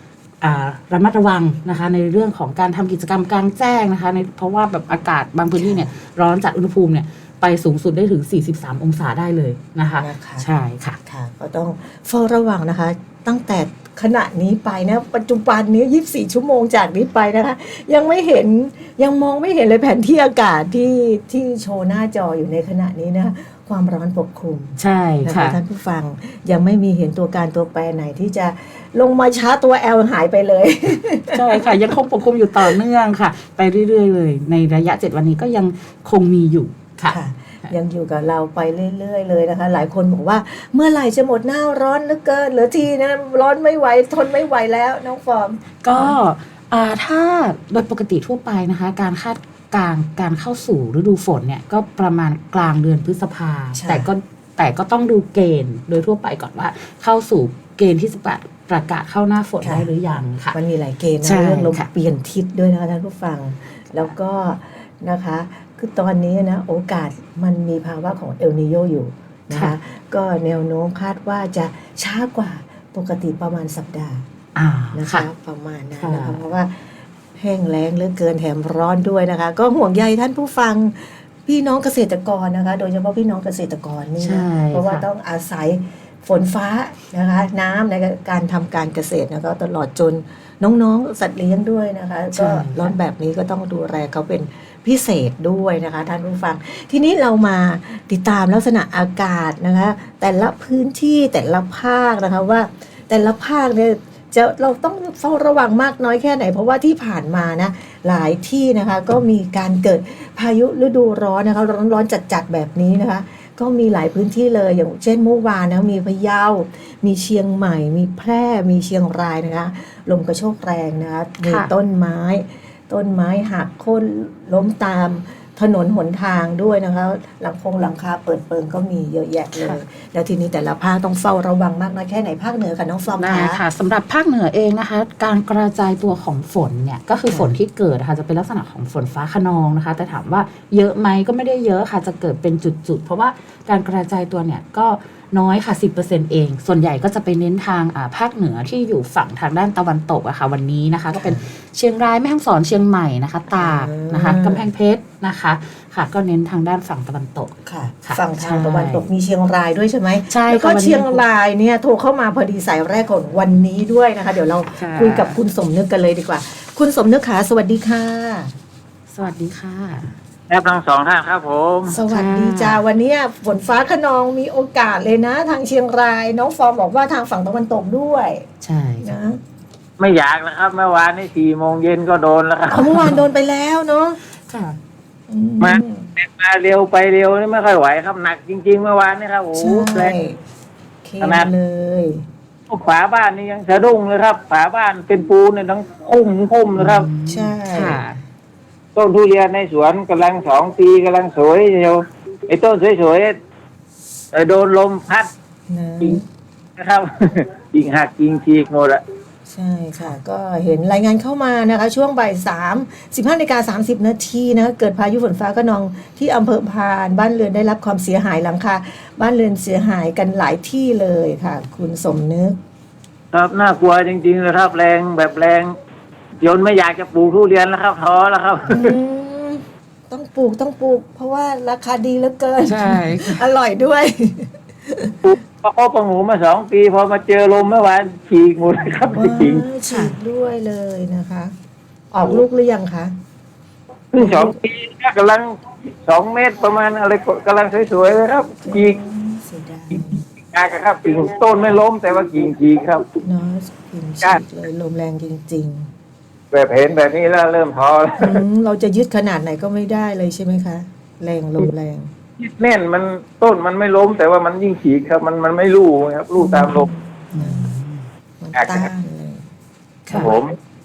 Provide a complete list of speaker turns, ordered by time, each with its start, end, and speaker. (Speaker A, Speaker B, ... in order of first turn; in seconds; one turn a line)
Speaker A: 0.4-11.0
Speaker B: 5.6-5.9
Speaker B: 10.0-10.4
Speaker B: 11.0-31.8
Speaker A: 24.8-25.6
Speaker A: 31.3-37.7
Speaker B: 37.1-46.1
Speaker A: 45.8-60.5
Speaker B: 53.7-54.1
Speaker B: 59.6-59.9
Speaker B: 60.5-74.2
Speaker A: 61.2-61.9
Speaker A: 74.5-75.3
Speaker B: 74.9-133.6
Speaker A: 76.0-76.4
Speaker A: 84.2-85.0
Speaker A: 92.3-92.9
Speaker A: 121.4-121.7
Speaker A: 129.5-129.8
Speaker A: 133.2-159.1
Speaker B: 151.1-151.5
Speaker B: 153.5-154.6
Speaker B: 157.6-168.5
Speaker A: 160.3-161.2
Speaker A: 164.8-165.4
Speaker A: 169.1-170.1
Speaker C: 170.5-171.9
Speaker B: 171.9-178.5
Speaker A: 171.9-172.8
Speaker A: 178.6-179.2
Speaker B: 179.0-179.4
Speaker C: 180.0-183.1
Speaker B: 182.7-184.2
Speaker A: 182.9-183.2
Speaker A: 184.5-184.8
Speaker B: 185.3-186.1
Speaker C: 185.6-190.1
Speaker B: 189.5-190.4
Speaker B: 191.0-192.2
Speaker C: 191.2-191.5
Speaker C: 192.7-197.1
Speaker A: 196.8-198.2
Speaker B: 197.2-198.0
Speaker C: 198.9-203.3
Speaker C: 204.3-205.3
Speaker B: 205.7-206.2
Speaker C: 206.8-209.0
Speaker B: 209.5-222.6
Speaker C: 223.3-225.7
Speaker C: 226.4-228.9
Speaker B: 228.7-235.2
Speaker A: 232.7-233.4
Speaker C: 235.2-239.6
Speaker B: 239.1-241.5
Speaker A: 239.9-240.1
Speaker B: 242.1-243.1
Speaker C: 244.1-245.5
Speaker B: 244.2-244.6
Speaker C: 246.0-249.0
Speaker B: 248.6-250.2
Speaker C: 250.5-253.0
Speaker B: 253.2-255.9
Speaker C: 256.5-258.4
Speaker B: 258.2-262.1
Speaker C: 262.4-266.9
Speaker B: 266.4-267.7
Speaker A: 267.3-268.0
Speaker B: 268.4-269.4
Speaker C: 268.5-268.9
Speaker B: 270.1-270.4
Speaker C: 270.1-270.6